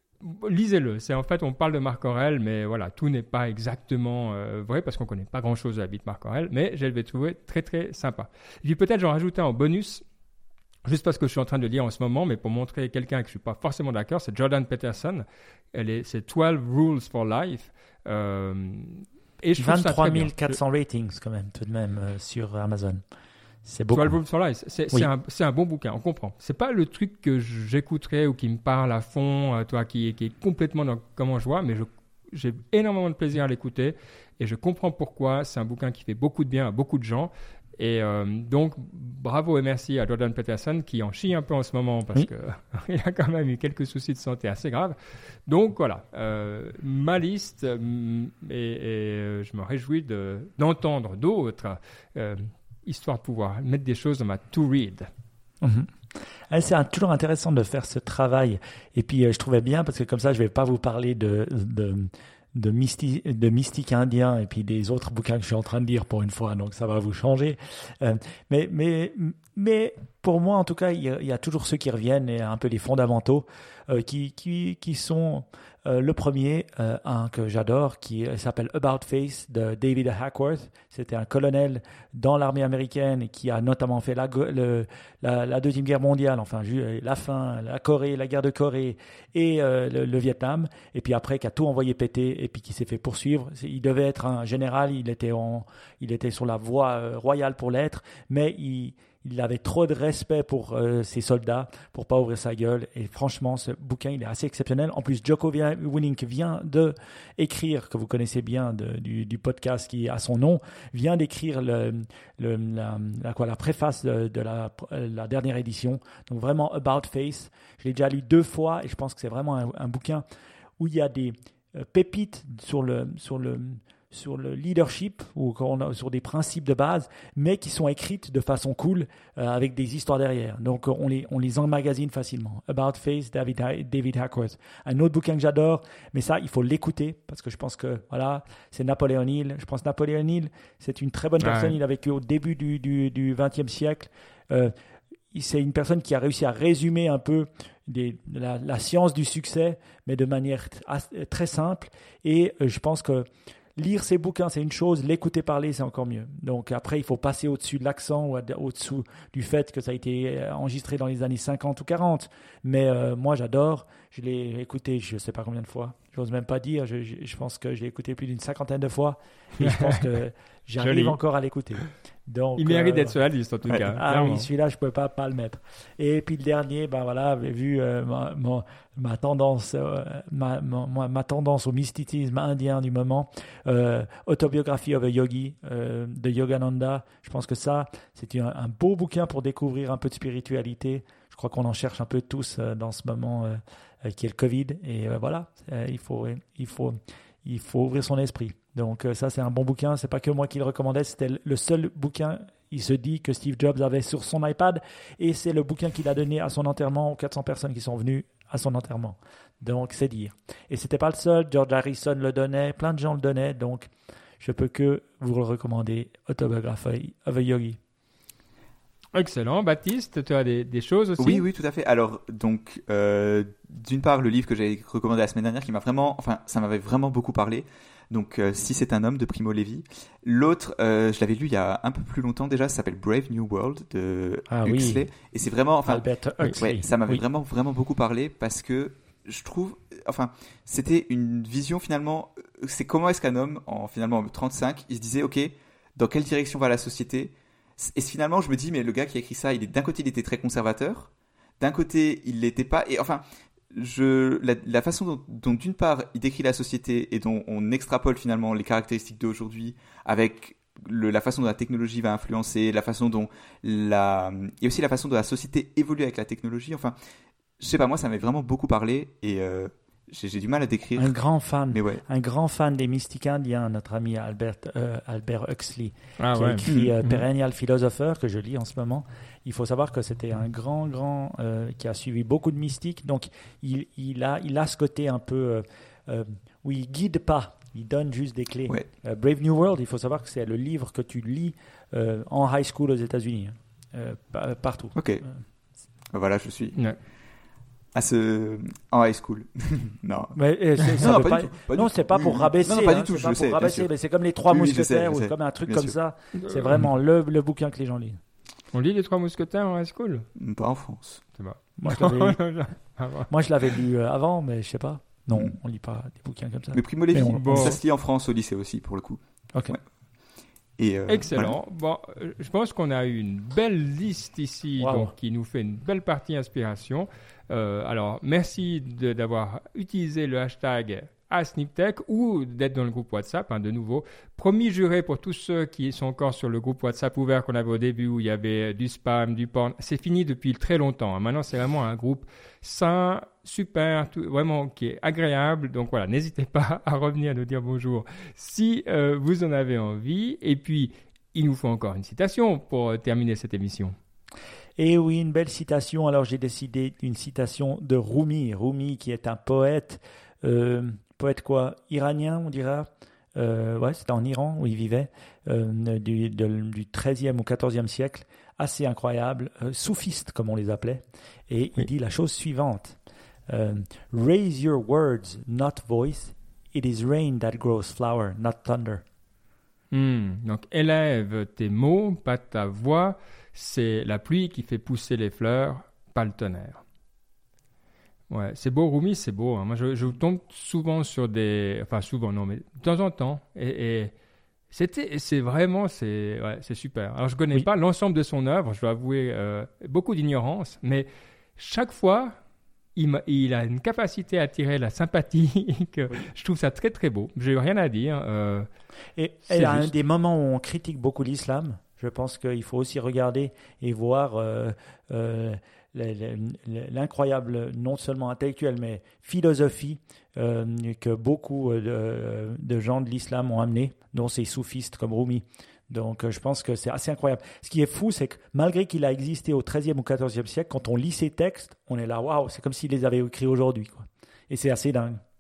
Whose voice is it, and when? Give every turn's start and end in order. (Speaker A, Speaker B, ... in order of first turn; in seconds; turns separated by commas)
Speaker A: 0.2-10.0, Speaker A: 10.8-20.6, Speaker B: 19.6-23.0, Speaker B: 23.6-24.2, Speaker A: 23.9-45.0, Speaker A: 45.5-55.1, Speaker B: 55.6-120.2, Speaker B: 120.8-144.7, Speaker A: 141.4-141.8, Speaker B: 145.3-217.8, Speaker A: 169.6-170.1, Speaker A: 170.8-171.2, Speaker A: 172.6-174.5, Speaker A: 219.1-221.4, Speaker C: 221.2-236.1, Speaker B: 234.5-235.1, Speaker B: 235.9-237.2, Speaker C: 236.6-266.9, Speaker C: 267.6-271.1, Speaker B: 271.0-295.3, Speaker C: 271.7-272.0, Speaker A: 276.2-277.2, Speaker C: 276.7-277.0, Speaker C: 295.0-295.2, Speaker C: 296.1-296.8, Speaker C: 297.9-300.4, Speaker B: 300.4-308.2, Speaker C: 300.9-303.9, Speaker C: 304.5-306.0, Speaker A: 306.4-306.8, Speaker A: 308.7-310.3, Speaker C: 310.4-311.2, Speaker A: 311.4-313.3, Speaker B: 311.8-312.4, Speaker B: 313.3-317.8, Speaker C: 316.7-319.8, Speaker A: 317.2-317.8, Speaker C: 320.8-321.6, Speaker A: 321.1-354.0, Speaker B: 324.8-325.1, Speaker B: 354.8-373.0, Speaker B: 373.5-379.0, Speaker A: 379.9-386.8, Speaker A: 388.3-394.1, Speaker A: 394.7-402.4, Speaker A: 403.0-408.7, Speaker B: 409.2-435.2, Speaker A: 409.5-409.9